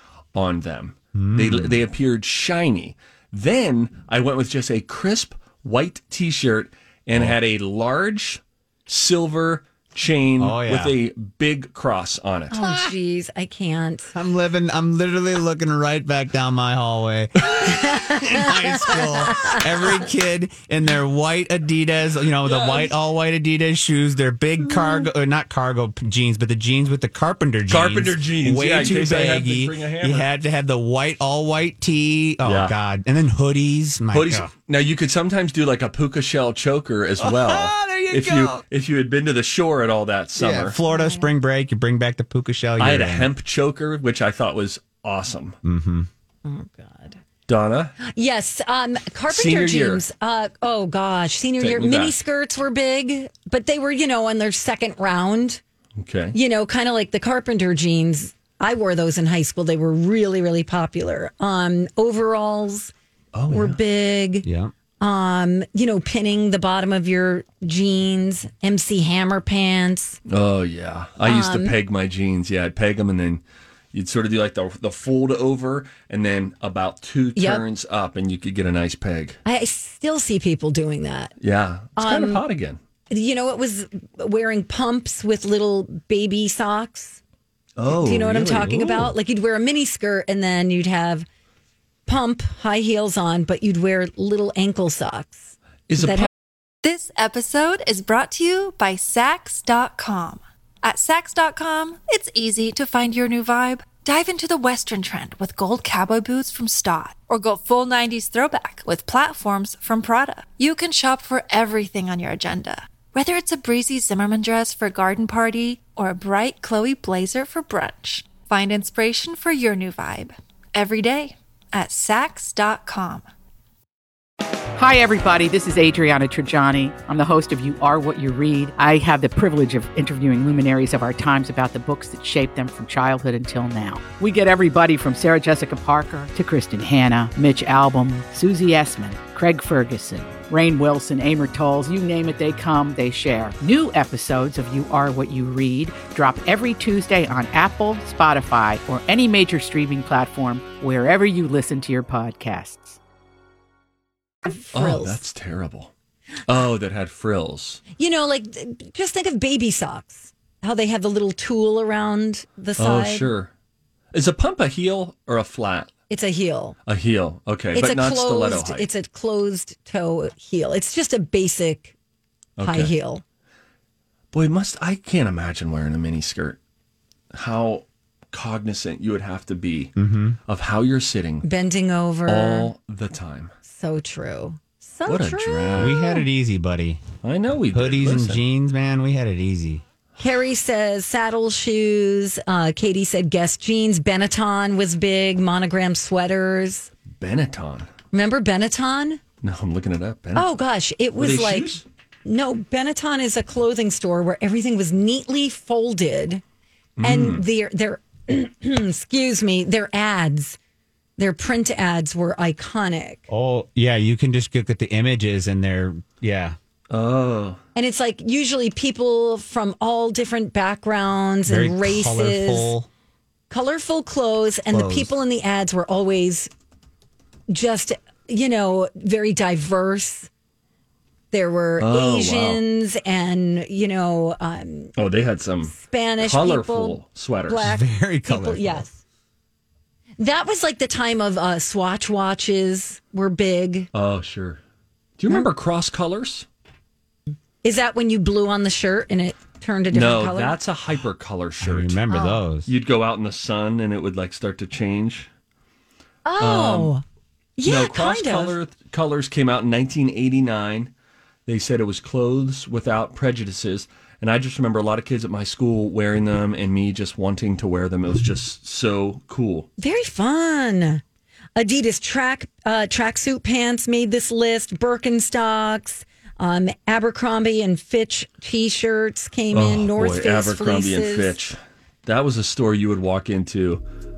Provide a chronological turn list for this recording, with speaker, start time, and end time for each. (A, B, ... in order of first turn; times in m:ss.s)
0:00.3-0:12.6 A
0:01.2-0:01.8 B
0:10.4-0:10.9 B
0:12.5-0:14.1 C
0:14.1-0:34.5 B
0:17.7-0:19.6 C
0:22.4-0:22.9 A
0:27.7-0:30.3 A
0:32.4-0:32.8 A
0:34.1-0:40.8 A
0:37.2-0:38.6 B
0:40.4-0:43.3 B
0:40.9-0:41.3 C
0:42.8-0:45.6 A
0:45.6-0:46.1 B
0:46.4-0:47.2 C
0:47.5-0:48.0 A
0:48.0-0:55.6 C
0:49.3-0:50.0 A
0:51.6-0:52.2 A
0:56.0-0:56.4 A
0:56.3-1:02.9 C
1:03.3-1:03.8 A
1:03.5-1:04.5 C
1:04.4-1:04.7 B
1:05.0-1:10.2 C
1:10.3-1:13.4 A
1:11.2-1:11.8 C
1:13.9-1:19.4 A
1:17.4-1:17.6 C
1:19.4-1:21.3 C
1:21.4-1:22.8 A
1:22.0-1:22.4 C
1:23.1-1:27.2 C
1:27.8-1:29.1 A
1:27.9-1:31.3 C
1:32.1-1:36.3 C
1:35.9-1:36.3 A
1:36.8-2:03.3 D
2:04.8-2:33.0 E
2:34.5-2:35.2 C
2:34.7-2:35.9 A
2:36.5-2:37.8 A
2:38.0-2:43.3 C
2:42.8-2:43.5 A
2:44.1-2:45.9 A
2:46.1-2:46.8 C
2:46.9-2:48.9 A
2:47.7-2:51.9 C
2:52.6-2:52.9 A
2:52.6-2:53.2 C
2:54.3-2:56.6 A
2:57.3-2:59.9 A
3:00.0-3:00.4 B
3:00.5-3:01.5 A
3:01.4-3:02.7 C
3:02.3-3:03.5 A
3:03.7-3:06.2 C
3:05.1-3:06.0 A
3:05.8-3:07.0 B
3:07.2-3:08.4 A
3:07.7-3:09.8 B
3:10.2-3:16.9 C
3:17.2-3:17.9 A
3:18.1-3:19.2 C
3:19.4-3:20.5 A
3:20.4-3:26.4 C
3:21.2-3:21.8 A
3:27.0-3:27.4 A
3:27.0-3:30.6 C
3:31.2-3:33.3 C
3:33.3-3:36.6 B
3:36.9-3:37.6 A
3:37.8-3:42.7 C
3:41.5-3:42.9 B
3:43.5-3:46.5 C
3:44.7-3:45.1 B
3:47.5-3:50.3 C
3:51.3-3:54.9 C
3:51.8-3:52.6 A
3:55.0-3:57.6 A
3:55.7-3:59.0 C
3:57.6-3:58.9 B
4:00.2-4:03.9 C
4:03.9-4:04.6 A
4:05.2-4:06.5 A
4:07.6-4:10.6 C
4:09.9-4:12.0 A
4:11.6-4:12.7 B
4:12.1-4:12.4 C
4:12.7-4:15.3 A
4:16.2-4:17.0 C
4:16.4-4:16.9 A
4:17.6-4:18.6 C
4:17.6-4:20.9 A
4:21.5-4:29.7 A
4:29.8-4:31.0 C
4:31.6-4:41.4 C
4:39.5-4:43.8 A